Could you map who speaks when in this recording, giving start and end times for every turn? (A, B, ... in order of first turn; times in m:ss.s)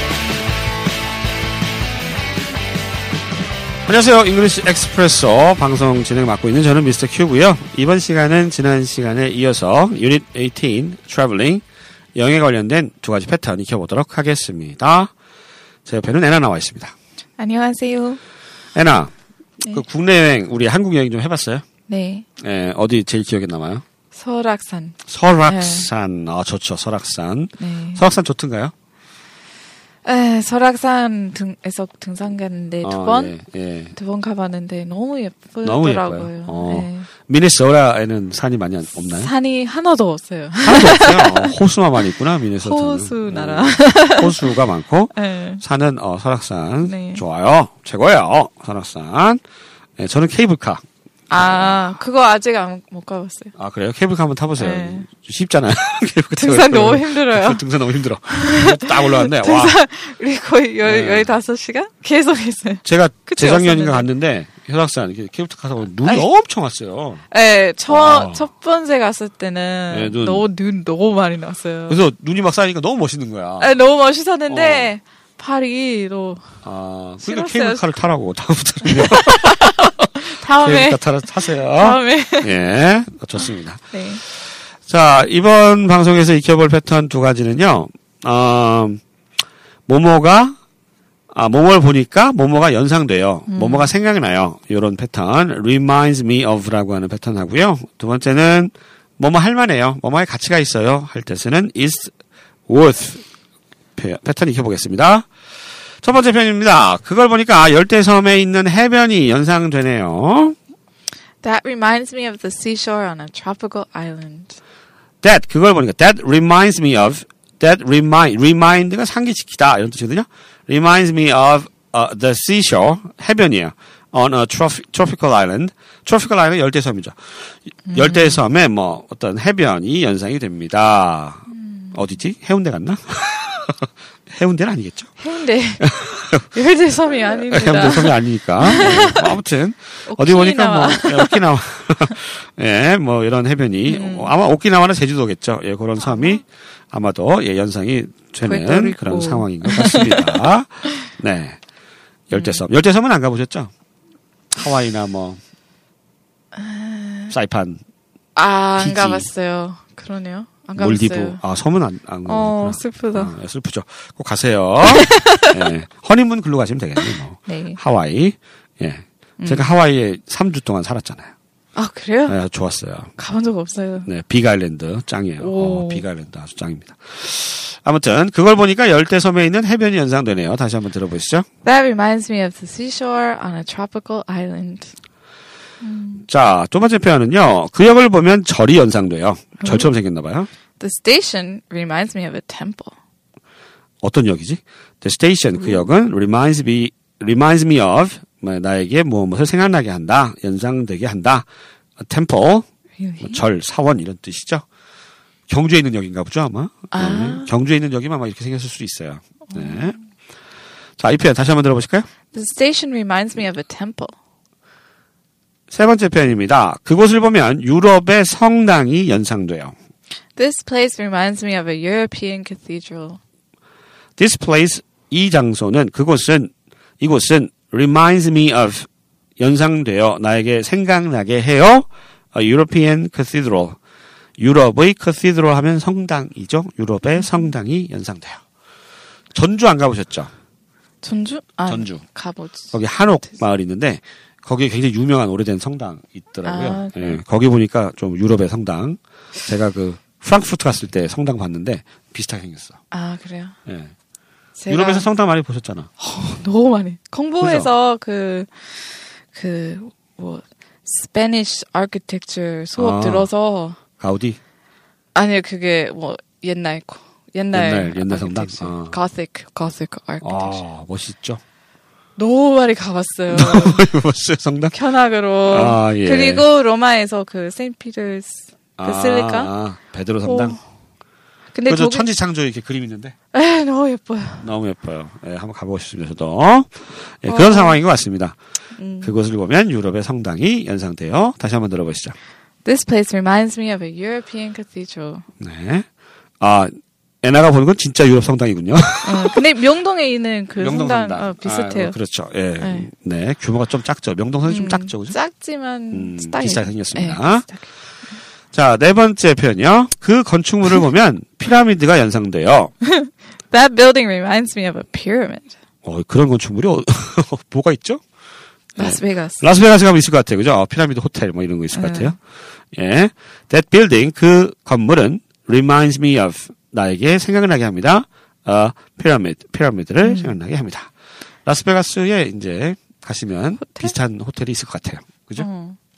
0:03.9-0:11.6 A
0:12.2-0:15.1 A
0:15.8-0:16.9 A
0:17.4-0:18.2 B
0:18.8-0:21.6 A
0:21.9-0:22.3 B
0:22.4-0:23.8 A
0:24.1-0:25.9 B
0:25.1-0:28.7 A
0:27.6-0:28.0 B
0:30.0-0:33.4 B
0:32.8-0:34.0 A
0:34.0-0:37.1 B
0:35.6-0:39.3 A
0:39.1-0:41.5 B
0:40.6-0:49.4 A
0:42.6-0:44.5 B
0:45.1-0:45.6 B
0:46.8-0:47.2 B
0:50.0-0:51.8 A
0:51.3-0:53.5 B
0:53.6-0:59.8 A
0:54.6-0:55.1 B
0:56.4-0:57.6 B
0:58.3-1:04.1 B
1:00.8-1:01.4 A
1:02.8-1:07.2 A
1:07.3-1:12.0 B
1:07.9-1:08.5 A
1:09.9-1:10.5 A
1:11.9-1:13.7 A
1:13.6-1:16.5 B
1:14.5-1:14.9 A
1:16.6-1:23.9 A
1:17.2-1:17.9 B
1:18.8-1:22.6 B
1:23.4-1:24.2 B
1:24.8-1:29.0 A
1:29.9-1:30.6 A
1:31.3-1:42.1 A
1:33.5-1:33.9 B
1:42.7-1:43.2 A
1:44.0-1:45.3 A
1:46.0-1:50.6 A
1:51.4-1:54.6 B
1:55.2-2:07.3 A
2:07.9-2:08.4 B
2:07.9-2:15.2 A
2:11.5-2:12.1 B
2:15.2-2:15.9 B
2:15.8-2:16.6 A
2:16.5-2:19.4 B
2:17.4-2:31.6 A
2:20.1-2:21.4 B
2:23.9-2:24.3 B
2:26.0-2:26.4 B
2:28.5-2:31.0 B
2:32.3-2:33.7 A
2:32.3-2:32.6 B
2:34.5-2:35.4 A
2:36.5-2:37.3 B
2:37.3-2:37.8 A
2:38.4-2:41.4 B
2:38.8-2:39.3 A
2:40.8-2:51.3 A
2:42.3-2:43.3 B
2:44.8-2:45.6 B
2:47.5-2:47.8 B
2:49.4-2:49.7 B
2:51.8-2:52.4 B
2:52.3-2:53.1 A
2:53.2-2:54.1 B
2:54.1-3:01.5 A
2:55.4-2:56.0 B
3:01.6-3:04.9 B
3:05.8-3:06.3 B
3:06.3-3:10.5 A
3:09.6-3:09.9 B
3:10.8-3:12.9 B
3:14.0-3:21.5 A
3:22.0-3:22.7 A
3:23.0-3:23.4 B
3:23.2-3:24.6 A
3:25.5-3:30.0 A
3:26.9-3:27.5 B
3:29.5-3:30.0 B
3:31.0-3:32.1 A
3:32.3-3:34.2 B
3:35.7-3:39.8 A
3:40.4-3:43.2 B
3:44.2-3:48.9 A
3:49.4-3:53.8 A
3:54.4-3:58.4 A
3:57.2-3:57.5 B
3:59.3-4:00.3 A
4:01.0-4:02.8 B
4:01.7-4:02.0 A
4:02.7-4:12.8 A
4:06.4-4:07.2 B
4:12.9-4:13.6 B
4:13.7-4:13.9 A
4:14.6-4:15.1 B
4:14.7-4:15.9 A
4:16.0-4:23.8 B
4:17.4-4:17.7 A
4:22.8-4:23.3 A
4:24.0-4:24.4 A
4:25.1-4:30.6 B
4:27.5-4:29.0 A
4:30.2-4:31.4 A
4:32.2-4:33.8 B
4:33.3-4:34.8 A
4:34.7-4:39.5 B
4:35.5-4:36.5 A
4:38.8-4:40.6 A
4:40.2-4:40.6 B
4:41.5-4:42.1 B
4:41.7-4:43.1 A
4:43.3-4:44.4 B
4:44.4-4:48.4 A
4:47.3-4:47.8 B
4:48.8-4:49.2 B
4:49.0-4:52.2 A
4:52.6-4:55.2 B
4:55.4-4:55.9 A
4:56.4-4:59.4 A
4:59.0-5:02.0 B
5:00.6-5:05.2 A
5:02.6-5:02.9 B
5:04.4-5:07.6 B
5:05.9-5:07.5 A
5:08.5-5:12.7 A
5:12.8-5:15.6 B
5:15.8-5:18.0 A
5:18.8-5:19.5 B
5:18.8-5:22.2 A
5:21.7-5:22.2 B
5:22.7-5:30.9 A
5:30.0-5:30.4 B
5:31.4-5:35.5 A
5:33.6-5:33.9 B
5:35.4-5:35.8 B